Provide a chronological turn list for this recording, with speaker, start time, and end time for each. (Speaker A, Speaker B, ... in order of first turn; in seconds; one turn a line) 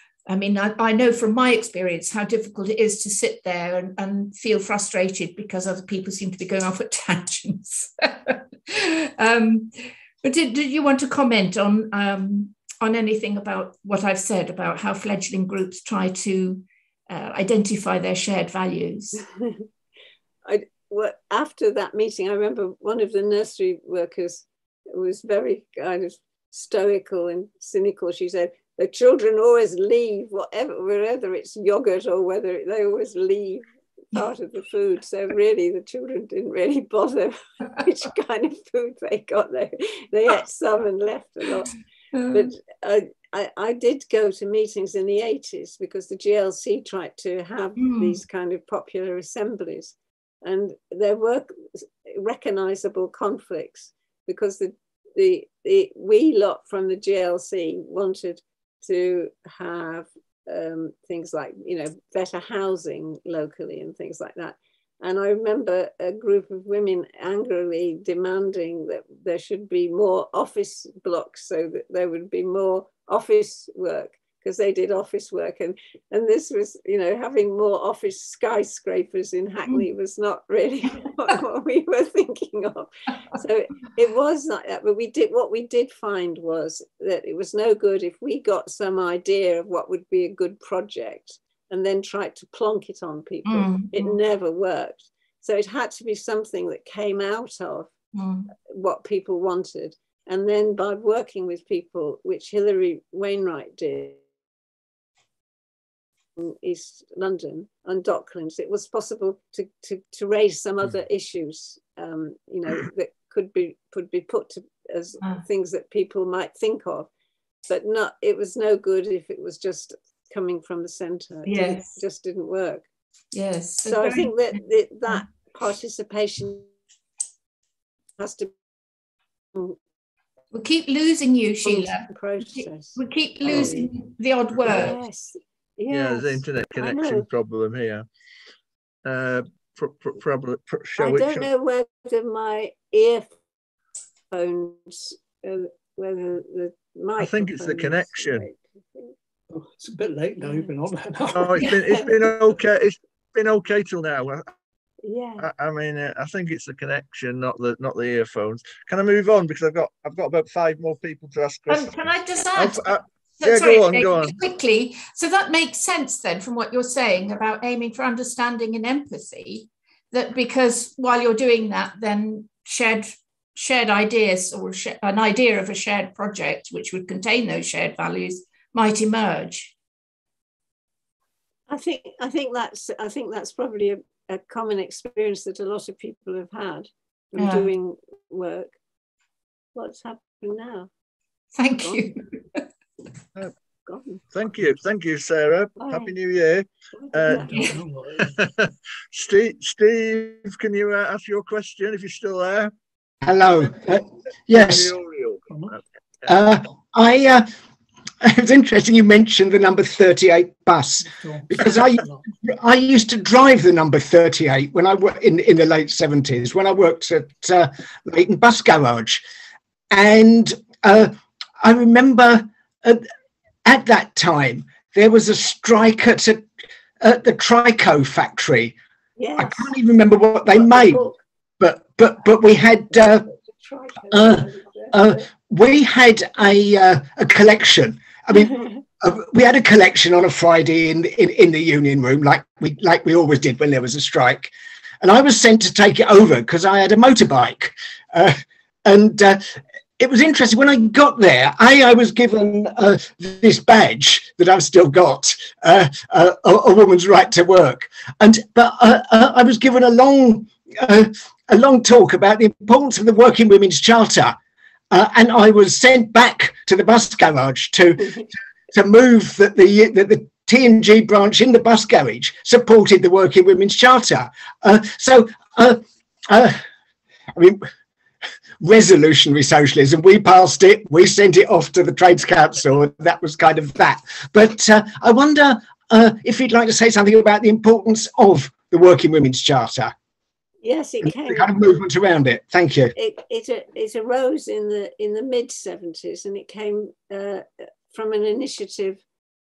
Speaker A: 0.3-19.2
Speaker B: 20.5-41.7
Speaker A: 42.2-42.5
Speaker B: 42.3-97.9
Speaker A: 47.8-48.1
Speaker A: 93.5-94.1
Speaker A: 98.2-98.4
Speaker B: 98.7-104.2
Speaker B: 106.4-117.1
Speaker B: 117.7-122.9
Speaker A: 121.5-121.9
Speaker A: 123.3-124.6
Speaker B: 123.8-126.7
Speaker B: 128.2-128.5
Speaker A: 130.5-135.0
Speaker B: 131.6-133.9
Speaker B: 134.7-137.3
Speaker C: 135.9-138.1
Speaker C: 139.1-141.5
Speaker B: 141.0-143.3
Speaker B: 144.3-149.1
Speaker C: 147.2-148.5
Speaker D: 149.5-151.8
Speaker B: 150.4-150.7
Speaker C: 151.3-154.5
Speaker B: 155.0-155.5
Speaker C: 155.4-162.0
Speaker A: 161.7-179.8
Speaker C: 162.6-164.4
Speaker B: 181.7-188.8
Speaker A: 187.4-187.7
Speaker B: 189.8-190.9
Speaker A: 191.5-192.6
Speaker B: 191.8-192.1
Speaker B: 193.9-194.2
Speaker C: 194.3-197.6
Speaker B: 195.8-196.1
Speaker B: 197.0-197.8
Speaker D: 197.3-198.3
Speaker C: 198.2-202.7
Speaker E: 203.2-204.9
Speaker C: 204.5-205.8
Speaker D: 205.5-205.8
Speaker E: 206.3-207.5
Speaker E: 208.2-219.2
Speaker D: 211.0-212.2
Speaker E: 219.9-223.0
Speaker E: 223.7-226.5
Speaker E: 227.0-228.8
Speaker B: 229.2-229.7
Speaker E: 229.4-231.0
Speaker B: 230.5-231.2
Speaker E: 231.6-233.3
Speaker B: 233.5-235.2
Speaker E: 234.1-264.4
Speaker E: 264.9-276.6
Speaker E: 277.4-277.6
Speaker E: 278.6-289.9
Speaker B: 290.6-291.5
Speaker E: 291.0-292.9
Speaker B: 293.0-299.0